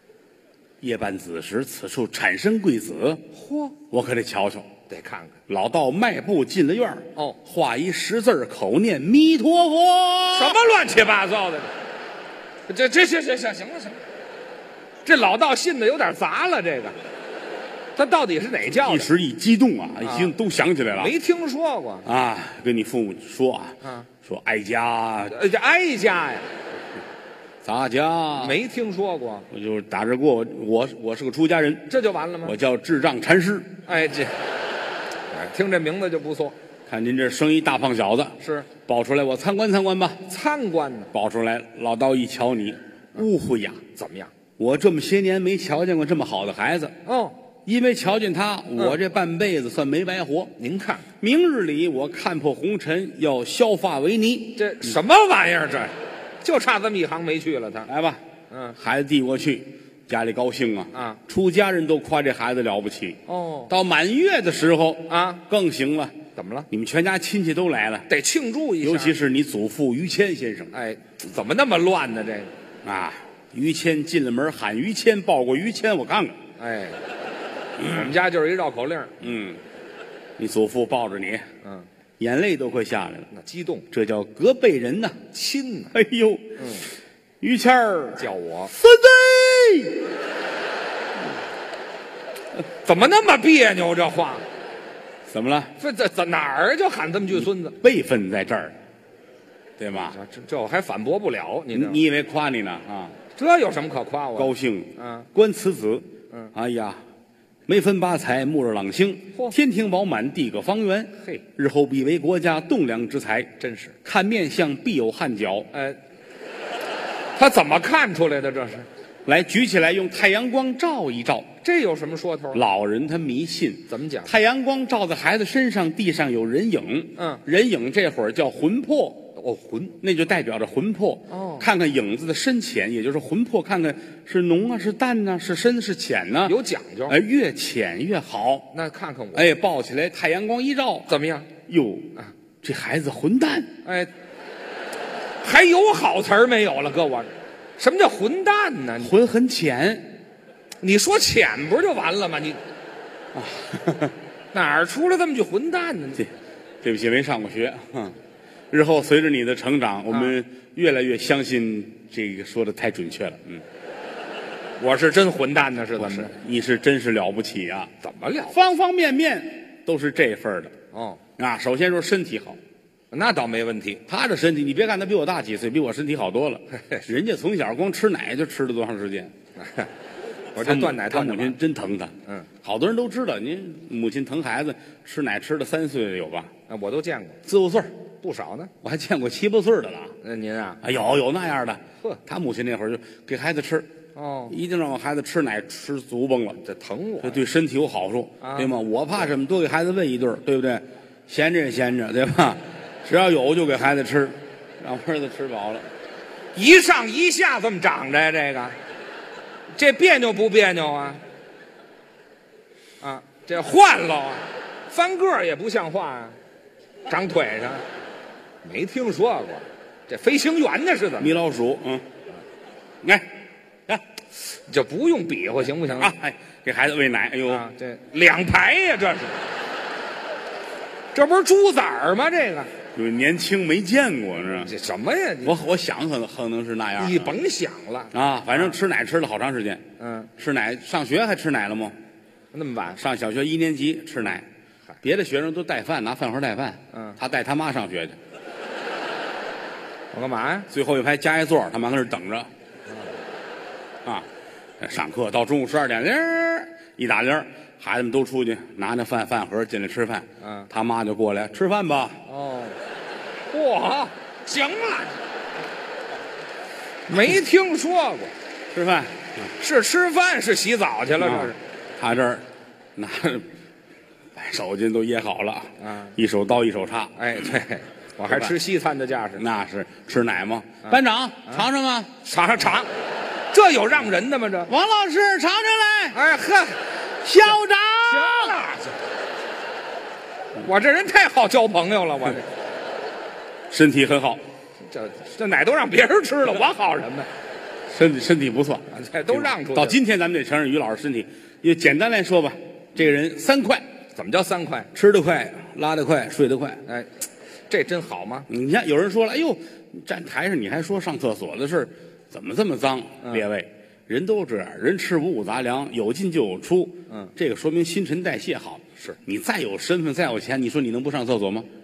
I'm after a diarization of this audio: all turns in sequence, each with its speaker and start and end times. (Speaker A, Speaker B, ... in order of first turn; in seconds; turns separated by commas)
Speaker A: 0.8-3.2, Speaker B: 3.3-3.8, Speaker A: 3.9-4.7, Speaker B: 4.9-5.4, Speaker A: 5.5-10.6, Speaker B: 10.3-11.7, Speaker B: 12.7-14.0, Speaker B: 15.1-17.0, Speaker B: 18.0-19.1, Speaker A: 18.7-21.1, Speaker B: 20.0-20.3, Speaker B: 21.0-22.1, Speaker A: 22.1-25.4, Speaker B: 23.8-24.1, Speaker B: 25.3-26.5, Speaker A: 27.6-28.6, Speaker B: 28.4-29.5, Speaker A: 29.5-31.9, Speaker B: 31.9-32.6, Speaker A: 32.4-33.8, Speaker B: 33.9-34.4, Speaker B: 35.3-36.5, Speaker A: 36.9-40.2, Speaker B: 38.4-38.7, Speaker B: 40.3-41.1, Speaker A: 41.1-43.8, Speaker B: 44.0-44.3, Speaker A: 44.6-47.0, Speaker B: 47.0-47.4, Speaker A: 47.6-50.5, Speaker B: 50.6-51.1, Speaker A: 51.2-55.0, Speaker B: 54.6-57.9, Speaker A: 57.9-58.2, Speaker B: 58.5-58.8, Speaker A: 58.8-66.2, Speaker B: 60.9-61.2, Speaker B: 63.3-63.7, Speaker B: 65.1-65.4, Speaker B: 66.4-66.7, Speaker A: 66.7-68.1, Speaker B: 68.1-69.2, Speaker A: 68.8-70.7, Speaker B: 70.7-72.5, Speaker A: 72.8-76.4, Speaker B: 76.6-77.0, Speaker A: 77.8-78.1, Speaker B: 77.8-79.2, Speaker A: 79.2-79.6, Speaker A: 80.4-81.5, Speaker B: 81.6-81.9, Speaker A: 82.2-83.3, Speaker B: 83.3-83.9, Speaker A: 83.9-85.2, Speaker B: 85.3-85.9, Speaker A: 85.9-86.7, Speaker B: 86.6-86.9, Speaker A: 87.4-90.1, Speaker B: 88.2-88.7, Speaker B: 92.8-94.4, Speaker A: 95.3-95.7, Speaker B: 95.8-97.8, Speaker A: 97.3-98.8, Speaker A: 99.8-100.2, Speaker B: 100.0-102.0, Speaker A: 101.7-103.2, Speaker B: 103.4-105.3, Speaker A: 104.4-107.0, Speaker A: 107.7-113.5, Speaker B: 113.6-114.0, Speaker A: 114.0-115.7, Speaker B: 115.7-116.0, Speaker B: 117.4-118.9, Speaker A: 119.3-121.5, Speaker B: 121.6-122.6, Speaker A: 122.5-129.3, Speaker B: 123.9-124.3, Speaker B: 127.2-127.4, Speaker B: 129.4-130.0, Speaker A: 130.0-138.7, Speaker B: 131.3-131.7, Speaker B: 136.4-137.2, Speaker B: 138.7-139.5, Speaker A: 139.3-143.7, Speaker B: 141.1-141.5, Speaker B: 143.8-144.1, Speaker B: 145.4-149.1, Speaker A: 149.0-150.1, Speaker B: 150.8-152.6, Speaker A: 153.3-154.2, Speaker B: 154.5-156.2, Speaker A: 156.8-158.2, Speaker A: 158.7-163.6, Speaker B: 164.8-166.3, Speaker A: 166.0-167.9, Speaker B: 168.0-168.6, Speaker A: 168.5-170.7, Speaker B: 170.9-171.2, Speaker A: 171.4-172.6, Speaker B: 173.1-174.0, Speaker A: 174.1-179.3, Speaker B: 176.8-177.1, Speaker B: 179.6-179.9, Speaker B: 180.6-181.6, Speaker A: 180.6-186.5, Speaker B: 186.7-187.4, Speaker A: 187.4-187.9, Speaker B: 188.2-188.7, Speaker A: 188.8-190.2, Speaker B: 190.2-190.8, Speaker A: 190.8-193.9, Speaker B: 194.2-194.6, Speaker A: 194.5-196.6, Speaker B: 196.6-197.4, Speaker A: 197.2-205.9, Speaker B: 198.4-198.7, Speaker B: 206.6-208.8, Speaker B: 209.8-211.2, Speaker B: 213.0-216.4, Speaker B: 217.1-217.8, Speaker B: 218.6-221.3, Speaker A: 221.2-222.1, Speaker A: 223.0-223.3, Speaker B: 224.5-226.1, Speaker A: 225.9-227.7, Speaker B: 227.5-229.4, Speaker B: 231.1-232.7, Speaker A: 232.9-234.7, Speaker B: 234.6-235.6, Speaker A: 235.4-237.3, Speaker B: 237.0-238.8, Speaker A: 238.1-239.8, Speaker B: 240.0-240.3, Speaker A: 240.4-242.0, Speaker B: 242.5-243.0, Speaker A: 243.0-244.5, Speaker A: 245.0-248.2, Speaker B: 246.9-247.2, Speaker B: 250.1-250.7, Speaker A: 250.7-252.5, Speaker A: 254.8-262.2, Speaker B: 260.4-260.7, Speaker B: 262.3-262.8, Speaker B: 263.5-265.2, Speaker B: 267.1-268.3, Speaker A: 268.7-269.5, Speaker B: 269.6-271.6, Speaker A: 271.2-272.4, Speaker A: 273.0-273.5, Speaker A: 274.4-277.4, Speaker B: 275.8-276.2, Speaker B: 277.2-279.4, Speaker A: 279.4-282.1, Speaker B: 280.8-281.6, Speaker B: 282.2-282.9, Speaker B: 283.5-284.7, Speaker A: 284.7-286.2, Speaker B: 286.1-286.8, Speaker A: 287.2-288.6, Speaker B: 288.1-289.0, Speaker B: 290.6-292.5, Speaker A: 293.7-294.4, Speaker B: 294.9-297.3, Speaker A: 297.9-303.8, Speaker B: 298.9-300.0, Speaker B: 304.1-304.9, Speaker A: 304.9-306.8, Speaker B: 307.7-308.5, Speaker A: 308.5-321.7